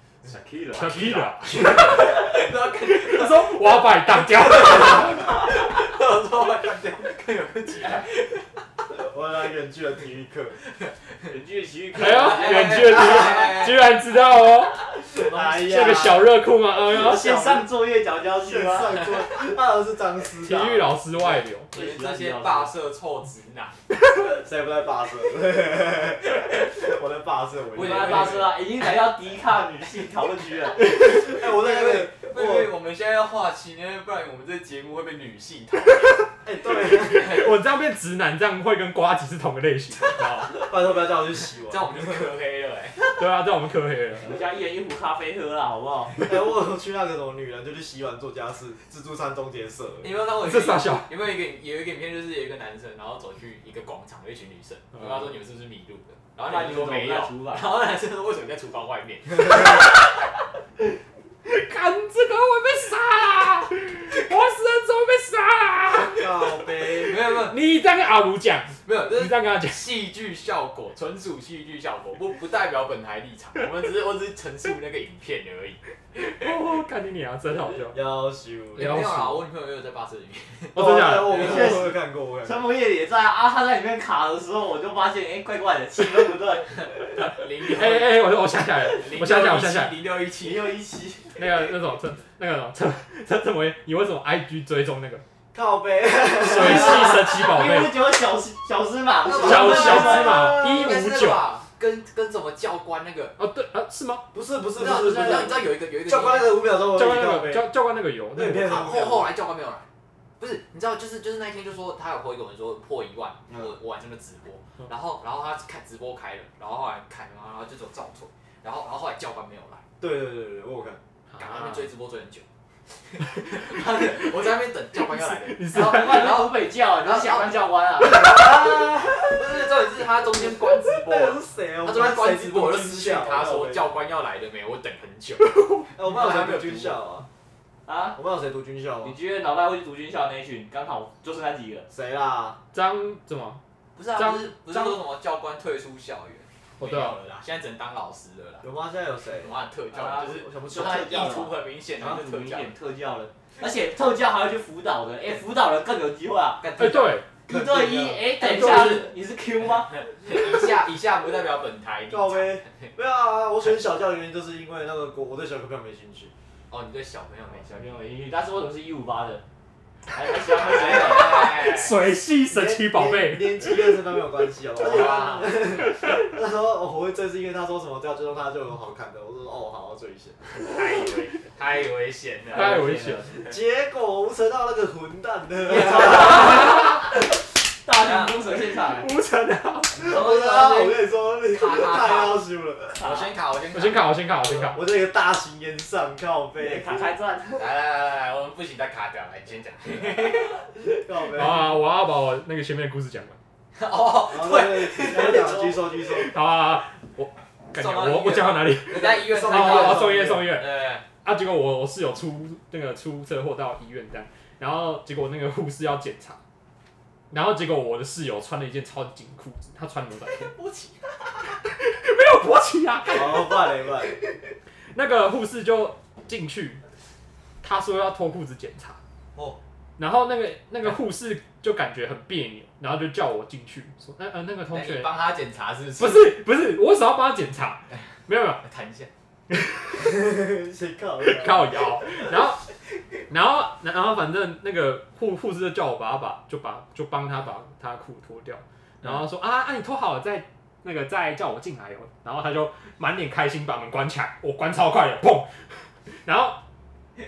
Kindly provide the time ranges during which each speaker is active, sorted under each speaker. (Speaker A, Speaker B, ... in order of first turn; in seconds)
Speaker A: 0.2-1.1, 11.3-12.8, 15.3-15.9, 16.9-19.0, 21.3-22.7, 27.8-30.9, 44.2-46.2, 56.4-57.6, 81.4-81.9, 82.4-87.1, 90.4-91.4, 96.5-100.3, 125.7-128.8, 137.8-138.2, 139.0-141.9, 149.9-160.1, 167.5-169.4, 170.1-171.4, 174.9-175.2, 182.5-183.5, 185.6-187.1, 187.8-189.1, 196.6-197.7, 205.0-205.8
Speaker B: 0.7-5.3, 11.9-14.9, 15.5-17.3, 20.4-21.7, 36.9-40.6, 43.1-44.3, 50.4-51.1, 61.4-66.6, 67.2-69.8, 76.2-78.0, 78.8-79.4, 80.7-81.7, 87.6-90.0, 91.3-95.2, 96.3-98.1, 99.3-101.5, 103.4-104.2, 106.9-108.9, 121.3-121.9, 125.2-126.5, 142.7-143.6, 144.2-145.0, 146.8-147.2, 156.8-157.2, 158.4-159.1, 171.0-173.8, 182.5-183.2, 186.5-186.8, 188.9-190.0, 193.7-194.8, 201.3-203.4, 206.1-210.7, 211.2-216.4, 217.3-220.5, 221.6-223.7, 224.9-226.8, 227.6-229.0, 230.0-235.1, 236.0-238.6, 239.5-240.0, 241.2-242.6, 243.3-256.6
Speaker C: 0.8-3.7, 4.5-8.4, 12.0-13.8, 21.7-23.8, 27.7-28.6, 31.2-36.2, 41.6-43.0, 50.0-59.9, 67.0-67.6, 68.8-75.8, 78.8-81.8, 87.1-88.2, 88.8-90.8, 99.2-103.3, 104.8-106.6, 108.7-109.9, 110.4-119.8, 121.3-122.5, 123.1-127.5, 129.3-137.0, 143.9-148.7, 149.3-152.7, 158.4-159.1, 160.1-162.9, 166.7-167.7, 170.5-172.0, 174.8-175.8, 180.6-182.8, 188.0-188.4, 190.0-192.4, 193.0-194.1, 197.6-200.6, 203.7-205.7, 207.7-211.0, 220.5-221.2, 234.7-236.3, 238.6-239.1
Speaker D: 8.9-10.6, 15.1-16.3, 16.9-17.7, 18.3-21.0, 24.2-28.5, 30.9-32.7, 36.4-37.4, 40.6-42.3, 46.2-50.1, 66.2-67.2, 77.9-79.0, 80.7-82.7, 95.5-97.3, 99.3-101.0, 104.3-107.7, 108.3-109.3, 120.0-121.0, 128.0-129.4, 130.8-133.9, 135.9-137.3, 138.1-139.2, 141.9-142.6, 148.6-149.5, 150.2-151.4, 157.5-158.3, 162.1-166.3, 172.5-180.4, 183.4-186.8, 190.0-193.1, 194.5-197.1, 200.8-201.8, 204.3-206.3, 208.9-210.5, 223.1-224.2, 239.9-241.8